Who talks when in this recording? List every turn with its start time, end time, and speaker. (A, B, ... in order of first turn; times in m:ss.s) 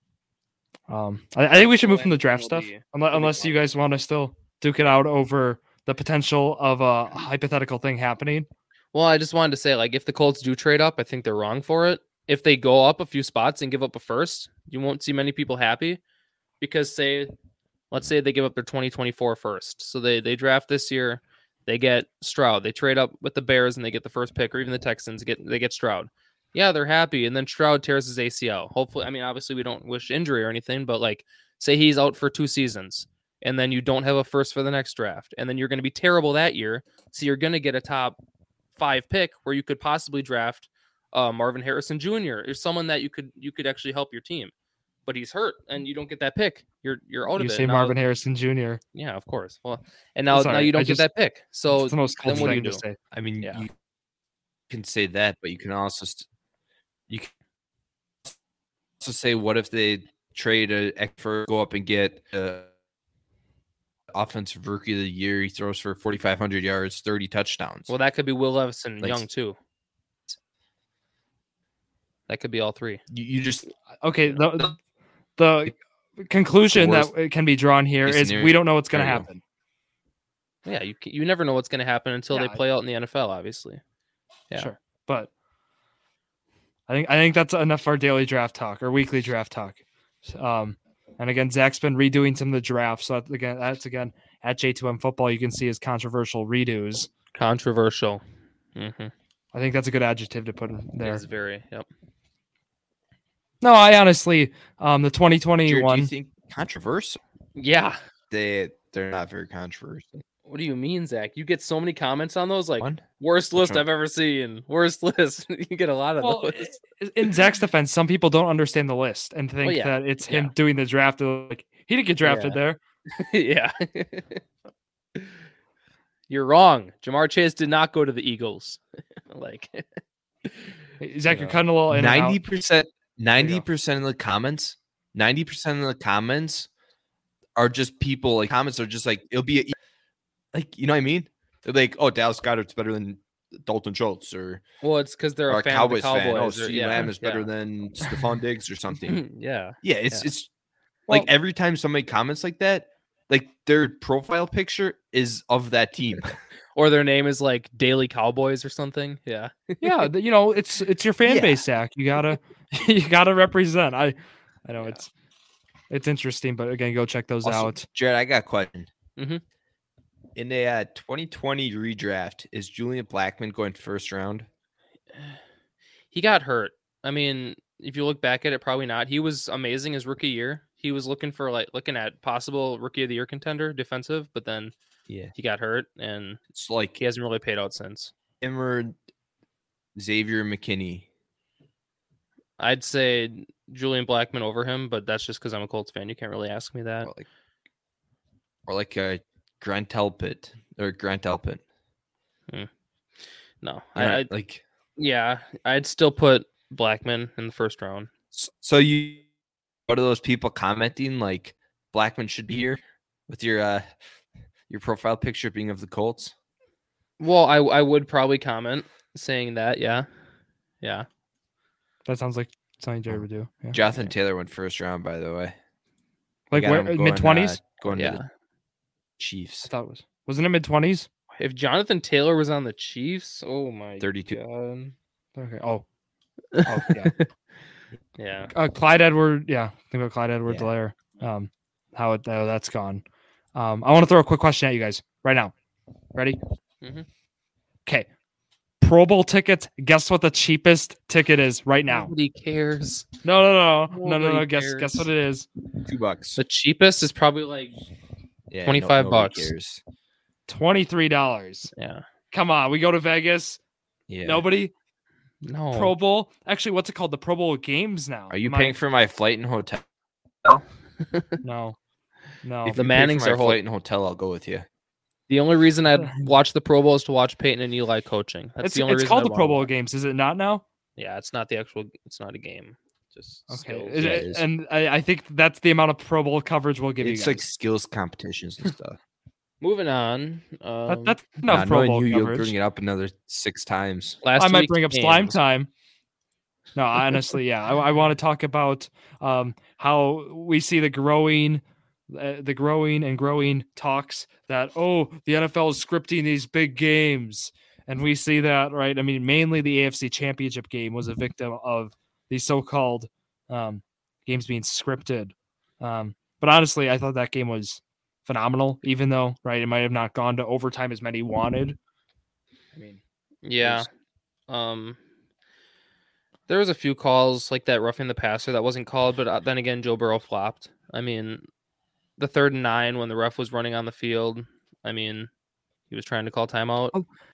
0:00.9-0:08.5 A
0:01.6-0:03.6 B
0:08.9-0:16.0 B
0:16.6-0:17.3 B
0:17.9-0:38.2 B
0:38.8-0:44.5 B
0:45.0-0:48.0 B
0:47.4-0:48.8 A
0:48.9-0:52.8 B
0:50.3-0:51.0 A
0:51.7-0:53.0 A
0:52.3-0:52.6 C
0:53.1-0:53.7 C
0:54.7-0:56.3 C
0:59.0-1:02.7 C
1:04.1-1:07.9 C
1:07.9-1:09.6 B
1:12.3-1:13.0 B
1:13.1-1:13.7 C
1:14.0-1:14.8 A
1:15.4-1:19.4 A
1:16.7-1:17.1 C
1:18.0-1:19.2 C
1:20.6-1:23.8 B
1:22.3-1:22.6 A
1:24.5-1:25.3 A
1:26.9-1:37.1 A
1:37.3-1:38.2 B
1:38.8-1:39.1 B
1:39.5-1:41.2 A
1:41.0-1:41.9 B
1:43.6-1:46.1 A
1:45.6-1:47.2 C
1:47.6-1:48.0 B
1:48.3-1:50.2 C
1:50.4-1:57.3 B
1:53.6-1:53.8 C
1:56.2-2:02.8 A
1:59.6-2:00.5 B
2:02.2-2:02.6 B
2:03.1-2:04.4 B
2:06.3-2:09.8 B
2:10.4-2:10.7 B
2:11.0-2:12.4 A
2:11.3-2:11.6 B
2:11.9-2:16.7 C
2:17.6-2:19.7 C
2:20.5-2:24.6 C
2:24.8-2:27.5 B
2:25.5-2:29.2 C
2:29.0-2:30.3 B
2:29.8-2:30.5 C
2:31.1-2:36.4 C
2:36.7-2:40.1 B
2:39.8-2:45.1 A
2:41.2-2:41.6 C
2:45.9-2:47.9 A
2:47.4-2:48.9 C
2:49.2-2:49.4 B
2:50.4-2:54.5 C
2:56.1-3:04.7 B
3:05.3-3:06.4 B
3:06.5-3:07.0 C
3:07.0-3:08.1 B
3:08.4-3:09.0 C
3:10.0-3:11.0 C
3:12.6-3:17.1 B
3:18.7-3:21.6 C
3:23.6-3:24.3 B
3:24.0-3:24.6 C
3:25.0-3:28.1 B
3:28.3-3:29.2 C
3:29.9-3:33.9 C
3:34.7-3:36.3 C
3:37.2-3:40.1 B
3:40.8-3:41.1 B
3:42.0-3:43.8 A
3:43.1-3:45.5 C
3:43.8-3:44.1 B
3:46.5-3:47.6 A
3:46.5-3:48.2 C
3:47.9-3:48.3 B
3:49.2-3:49.7 C
3:49.6-3:51.1 A
3:51.4-3:54.9 B
3:54.0-3:54.4 C
3:55.4-3:55.8 A
3:56.5-3:57.3 B
3:56.6-3:57.1 A
3:58.2-3:58.5 B
3:58.5-4:03.0 A
4:03.5-4:05.5 A
4:08.8-4:12.1 A
4:11.9-4:13.1 B
4:13.2-4:15.5 A
4:13.9-4:15.1 B
4:15.8-4:16.4 C
4:16.4-4:17.8 B
4:18.5-4:19.8 C
4:18.6-4:19.5 B
4:20.5-4:21.7 A
4:21.7-4:22.0 B
4:22.3-4:23.6 A
4:24.1-4:24.4 C
4:24.2-4:24.7 A
4:25.4-4:25.9 B
4:25.7-4:28.8 A
4:28.3-4:29.8 C
4:31.1-4:31.4 B
4:31.4-4:31.8 A
4:32.4-4:32.8 A
4:32.6-4:34.7 C
4:32.7-4:33.6 B
4:35.3-4:39.7 B
4:38.6-4:40.6 A
4:41.0-4:44.2 B
4:43.5-4:47.4 A
4:43.9-4:44.4 C
4:47.0-4:49.0 C
4:49.6-4:51.2 B
4:50.9-4:52.5 A
4:51.5-4:54.2 C
4:54.2-4:55.4 B
4:54.4-4:55.7 A
4:56.7-5:21.8 A
5:22.7-5:23.0 A
5:23.4-5:23.9 B
5:24.5-5:25.0 B
5:26.5-5:31.4 B
5:32.2-5:35.3 B
5:35.9-5:36.9 B